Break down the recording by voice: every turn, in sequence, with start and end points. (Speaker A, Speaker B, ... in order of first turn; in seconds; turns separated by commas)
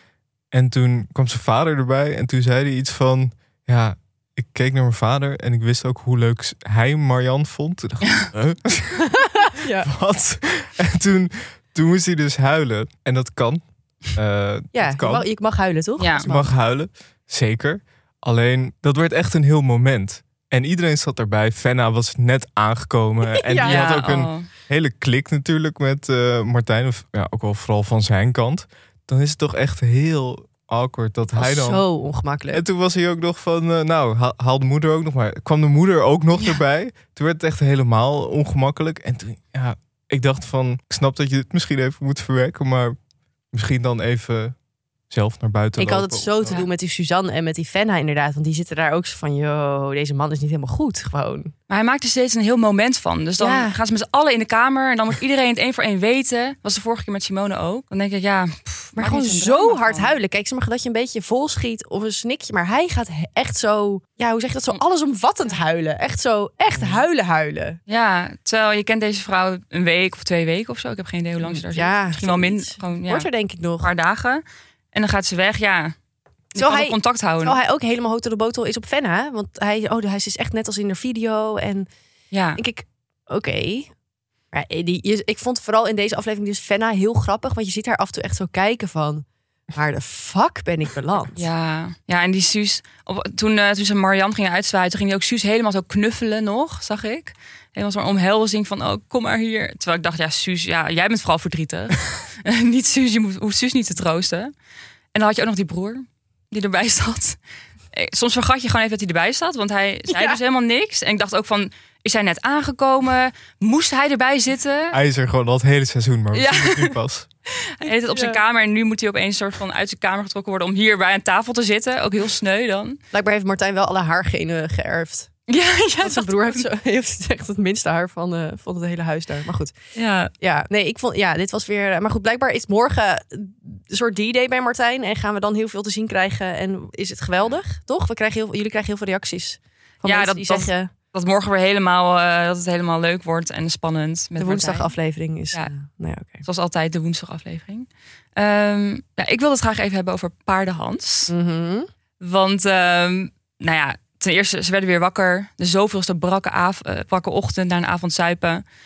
Speaker A: 0.5-9.2, Speaker B: 9.0-9.9, Speaker A: 9.8-15.3, Speaker B: 14.7-16.5, Speaker C: 16.0-16.3, Speaker A: 16.2-31.9, Speaker B: 23.4-23.8, Speaker C: 23.6-24.5, Speaker B: 31.4-32.6, Speaker A: 32.5-43.0, Speaker A: 43.5-44.6, Speaker A: 45.1-46.6, Speaker B: 45.8-51.5, Speaker C: 51.7-60.1, Speaker B: 53.4-53.7, Speaker B: 59.0-67.8, Speaker A: 66.7-67.0, Speaker C: 67.9-73.3, Speaker B: 71.7-73.9, Speaker C: 73.8-74.4, Speaker C: 74.9-76.0, Speaker C: 76.5-77.6, Speaker B: 76.6-81.9, Speaker C: 82.3-82.6, Speaker B: 82.6-83.9, Speaker B: 84.5-91.5, Speaker C: 91.4-104.5, Speaker C: 105.1-107.4, Speaker C: 107.9-115.0, Speaker B: 110.1-110.4, Speaker A: 114.9-117.3, Speaker C: 116.3-117.0, Speaker C: 117.6-123.0, Speaker B: 118.1-118.4, Speaker B: 123.1-125.3, Speaker C: 125.5-126.6, Speaker B: 126.0-129.7, Speaker C: 129.9-130.3, Speaker B: 130.4-140.9, Speaker C: 140.1-144.9, Speaker B: 144.4-146.4, Speaker C: 146.4-151.3, Speaker B: 151.3-151.9, Speaker C: 152.2-158.6